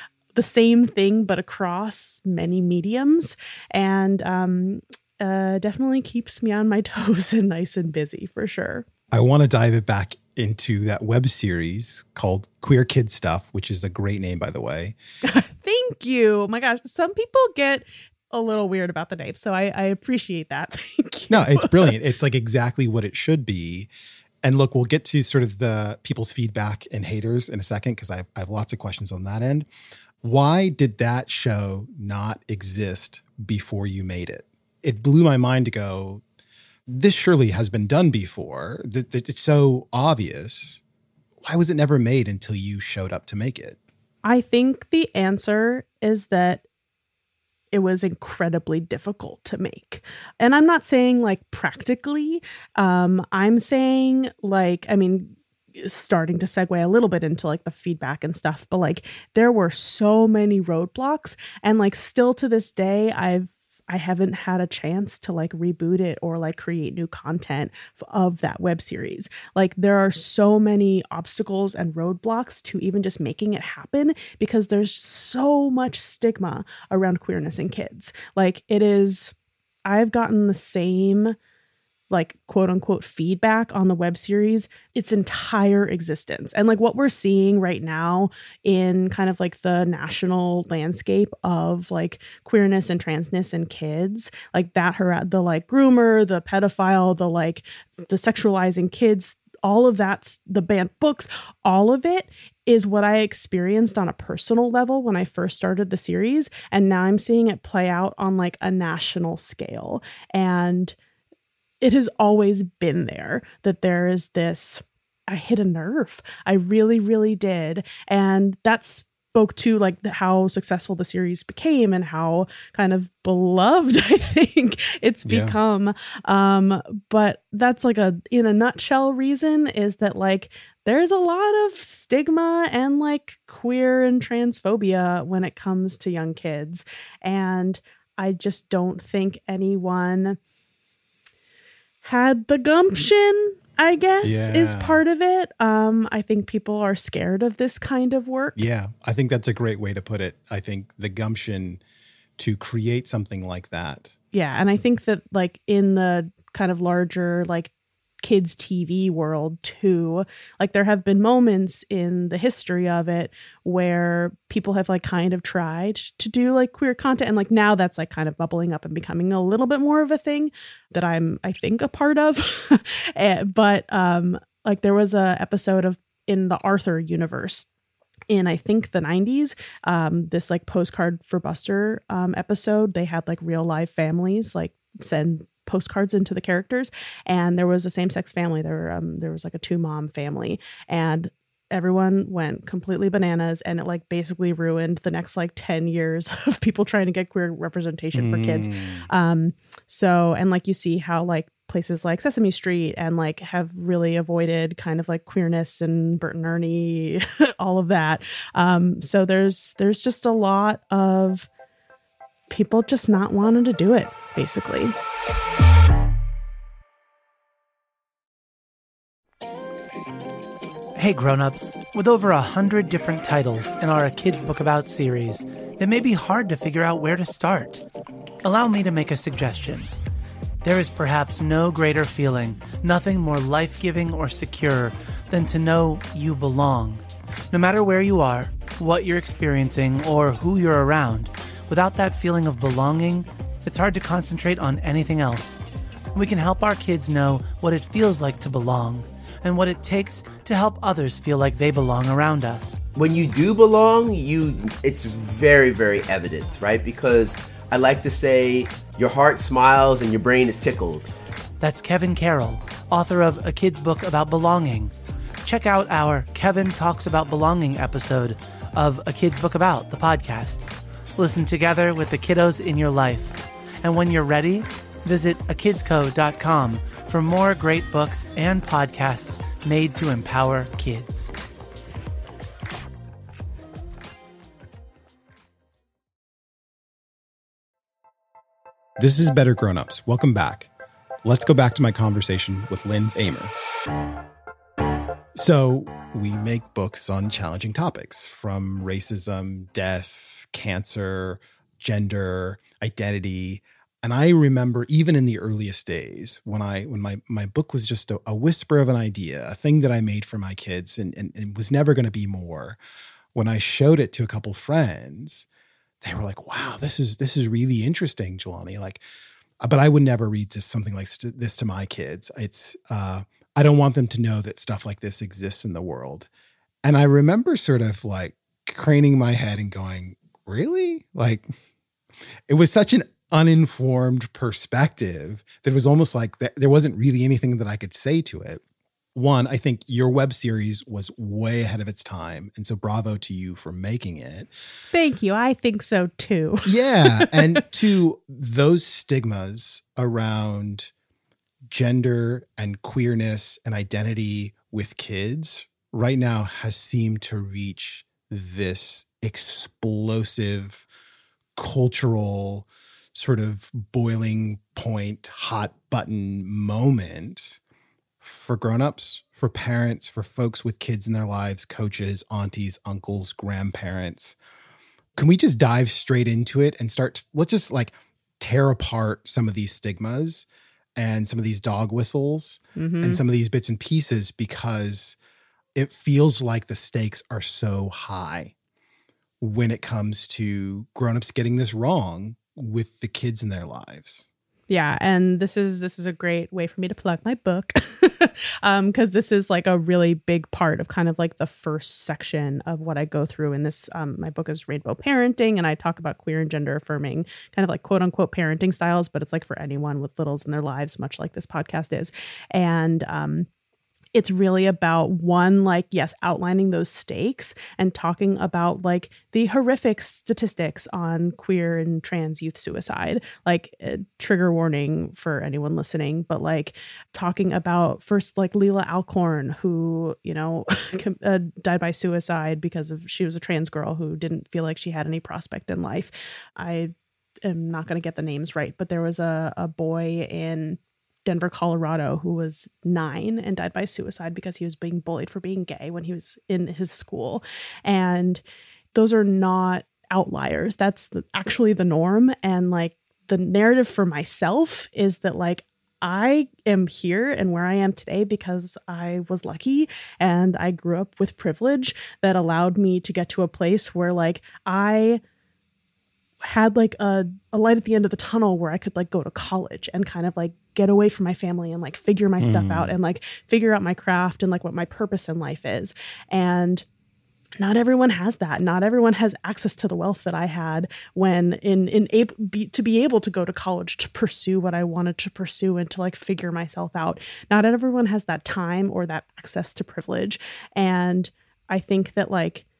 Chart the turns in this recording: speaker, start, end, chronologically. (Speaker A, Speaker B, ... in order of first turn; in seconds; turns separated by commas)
Speaker A: 0.3-8.8, Speaker B: 9.1-14.9, Speaker A: 15.2-21.9, Speaker B: 21.3-23.9, Speaker B: 24.4-29.7, Speaker B: 30.2-36.2, Speaker B: 36.9-40.8, Speaker B: 41.4-43.8, Speaker A: 44.2-46.6, Speaker A: 47.7-79.3, Speaker A: 79.8-81.3, Speaker A: 82.1-111.0, Speaker A: 111.8-140.4, Speaker B: 125.2-125.6, Speaker A: 142.0-148.7, Speaker B: 144.2-145.0, Speaker B: 148.5-151.8, Speaker B: 152.4-154.1, Speaker A: 154.3-157.7, Speaker A: 158.2-177.7, Speaker A: 178.3-211.5, Speaker B: 198.1-199.1, Speaker A: 212.5-214.9, Speaker C: 220.9-227.8, Speaker C: 228.4-229.9, Speaker C: 230.6-245.6, Speaker C: 246.1-252.8, Speaker D: 252.9-261.1, Speaker C: 261.6-264.9, Speaker C: 265.4-281.3, Speaker B: 289.0-290.7, Speaker B: 291.2-293.5, Speaker B: 295.3-312.8, Speaker B: 313.3-315.5, Speaker B: 316.0-319.0, Speaker B: 319.6-326.3, Speaker B: 326.8-331.5, Speaker B: 332.5-338.6, Speaker B: 339.1-344.5, Speaker A: 344.9-347.6, Speaker B: 346.6-350.9, Speaker B: 351.7-360.9, Speaker B: 361.6-367.6, Speaker B: 368.2-374.4, Speaker B: 375.1-385.2, Speaker A: 382.8-383.2, Speaker B: 385.7-388.5, Speaker B: 389.4-394.2, Speaker A: 394.7-413.5, Speaker A: 414.1-436.9, Speaker A: 437.4-448.4, Speaker A: 448.9-465.2, Speaker A: 466.4-476.8, Speaker B: 472.4-472.9, Speaker A: 477.6-492.6